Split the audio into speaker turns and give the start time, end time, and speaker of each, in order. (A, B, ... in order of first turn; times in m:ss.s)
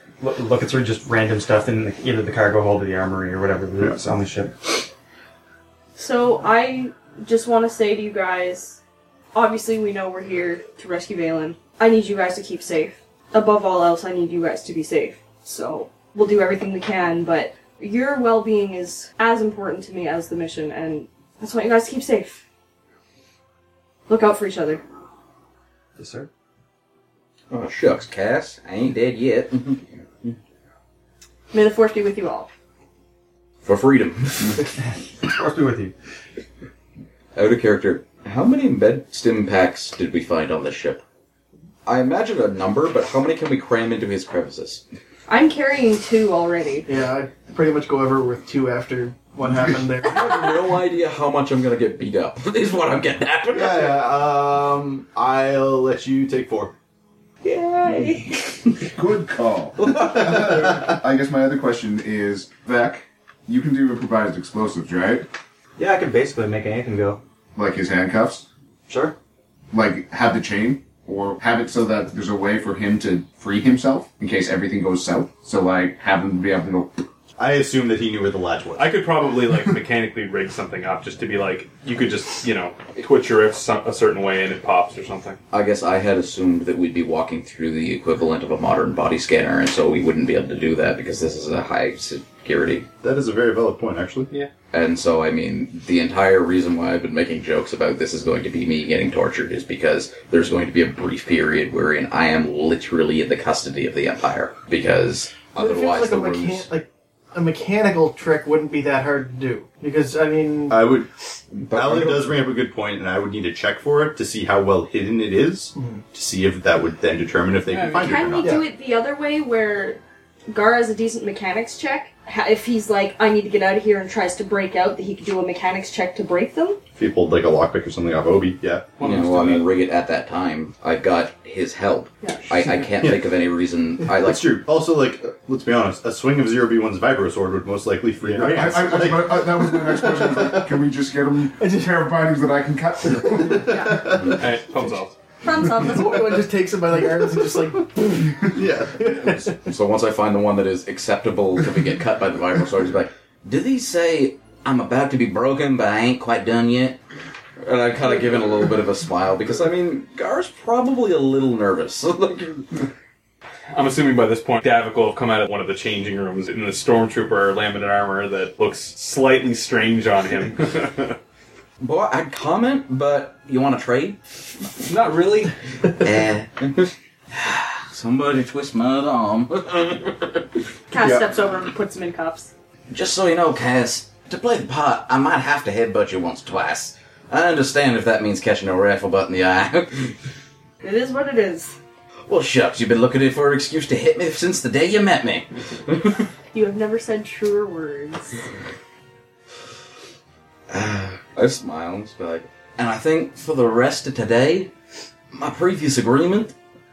0:00.2-0:04.6 A
0:06.0-0:08.8 B
0:09.3-0:22.4 B
0:24.1-0:24.8 B
0:26.0-0:26.3 A
0:27.5-0:30.4 C
0:31.5-0:32.5 B
0:33.6-0:34.7 C
0:34.8-0:35.9 A
0:37.4-0:41.0 C
0:41.8-0:44.8 C
0:45.3-0:46.9 B
0:46.9-0:50.4 D
0:50.0-0:54.0 C
0:53.5-0:56.7 E
0:57.4-0:58.6 B
0:58.9-1:05.3 F
0:59.8-1:00.6 C
0:59.9-1:00.9 E
1:05.8-1:07.2 A
1:07.6-1:08.4 F
1:08.9-1:09.1 A
1:09.7-1:16.9 F
1:17.4-1:18.9 E
1:18.8-1:25.4 G
1:25.5-1:32.9 C
1:33.0-1:34.3 E
1:34.7-1:46.6 C
1:45.6-1:50.8 D
1:50.7-1:51.1 E
1:51.6-1:52.4 C
1:51.7-1:58.6 E
1:55.8-1:56.0 D
1:57.7-1:58.3 G
1:57.9-2:06.8 B
2:07.0-2:09.0 E
2:09.0-2:09.7 G
2:09.0-2:14.4 C
2:12.2-2:12.5 B
2:13.0-2:13.3 E
2:14.2-2:19.8 E
2:18.4-2:23.8 F
2:21.6-2:22.1 D
2:23.7-2:24.1 B
2:23.8-2:24.4 E
2:24.2-2:24.4 C
2:24.4-2:25.1 G
2:25.4-2:26.4 B
2:25.6-2:29.4 D
2:28.5-2:29.4 E
2:29.6-2:37.0 C
2:37.6-2:42.8 C
2:43.7-2:51.2 G
2:51.8-2:54.2 C
2:54.8-2:55.5 G
2:56.0-3:00.4 C
3:00.9-3:02.5 B
3:02.9-3:10.1 C
3:10.8-3:11.8 B
3:12.3-3:16.2 C
3:16.5-3:18.4 B
3:20.7-3:24.7 C
3:25.3-3:26.6 C